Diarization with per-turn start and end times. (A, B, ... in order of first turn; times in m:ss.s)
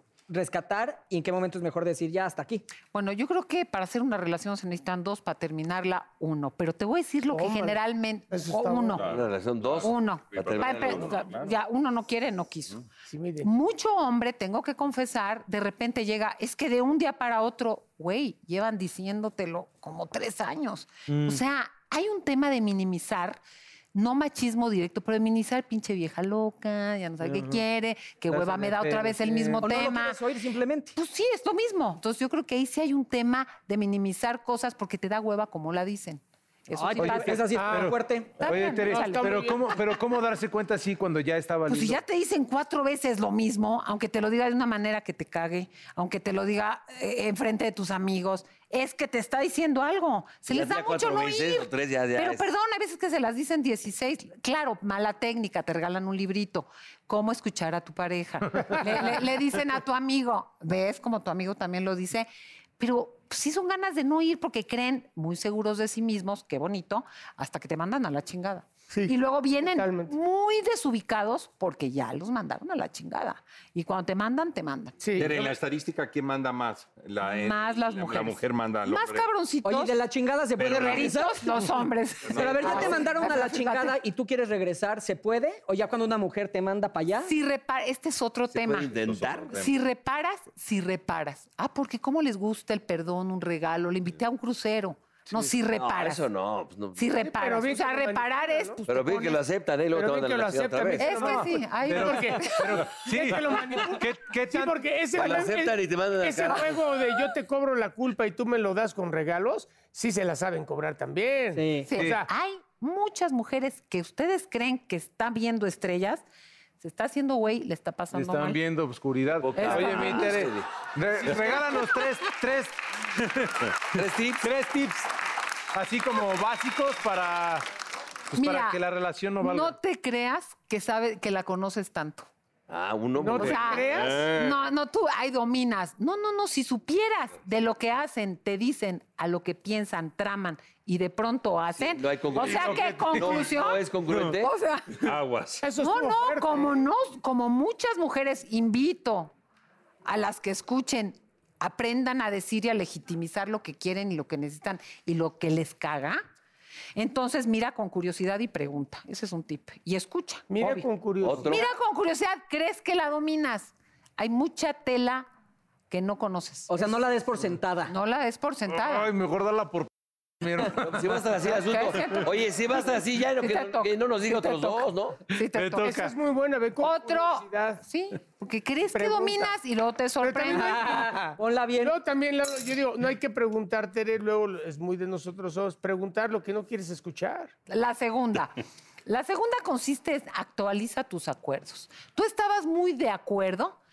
0:00.3-0:02.6 A
0:02.9-0:09.1 B
0:07.3-0:09.1 C
0:09.0-0:11.5 D
0:09.0-0:11.2 E
0:09.8-0:12.8 B
0:13.1-0:13.5 C
0:13.4-0:23.4 B
0:21.1-0:21.4 F
0:23.9-0:30.2 B
0:27.2-0:27.6 F
0:28.3-0:29.6 F
0:29.6-0:31.0 A
0:31.0-0:37.6 B
0:36.7-0:38.4 A
0:37.0-0:42.0 F
0:37.5-0:37.9 C
0:38.4-0:39.5 B
0:38.8-0:39.8 C
0:41.7-1:15.3 B
0:50.5-0:52.5 E
1:08.9-1:10.1 C
1:15.0-1:15.5 C
1:15.2-1:19.3 D
1:17.2-1:20.0 B
1:19.6-1:27.3 A
1:20.6-1:21.1 D
1:20.8-1:24.0 B
1:22.2-1:23.2 D
1:27.2-1:28.9 B
1:28.5-1:29.6 E
1:28.9-1:29.7 D
1:29.5-1:36.3 B
1:35.7-1:37.1 E
1:37.0-1:39.4 B
1:37.2-1:38.8 C
1:38.9-1:41.4 E
1:39.9-1:52.3 C
1:41.0-1:42.8 B
1:41.8-1:44.8 F
1:45.2-1:46.8 E
1:51.6-1:51.9 A
1:51.9-1:56.2 B
1:52.0-1:52.2 F
1:56.8-1:58.6 B
1:58.1-2:05.1 F
1:59.4-2:00.8 E
1:59.6-2:00.5 B
2:03.9-2:04.5 E
2:05.7-2:07.6 F
2:08.3-2:09.8 F
2:08.3-2:08.8 B
2:09.4-2:12.3 B
2:12.7-2:13.9 E
2:13.2-2:14.2 C
2:13.4-2:25.1 B
2:13.9-2:14.6 D
2:21.8-2:24.5 E
2:22.4-2:23.4 F
2:25.0-2:25.6 D
2:25.6-2:26.8 C
2:25.8-2:29.3 B
2:30.0-2:36.2 B
2:37.0-2:40.9 B
2:40.5-2:41.6 C
2:41.2-2:41.7 E
2:41.4-2:45.3 B
2:45.9-2:47.0 B
2:46.7-2:47.9 A
2:47.9-2:49.1 B
2:48.7-2:49.9 F
2:50.4-2:51.2 F
2:50.7-2:55.2 E
2:51.4-2:55.9 B
2:55.5-2:56.1 F
2:55.8-2:57.8 C
2:56.8-3:01.0 B
2:58.9-2:59.6 C
3:00.2-3:07.5 C
3:00.4-3:01.9 A
3:07.7-3:13.8 B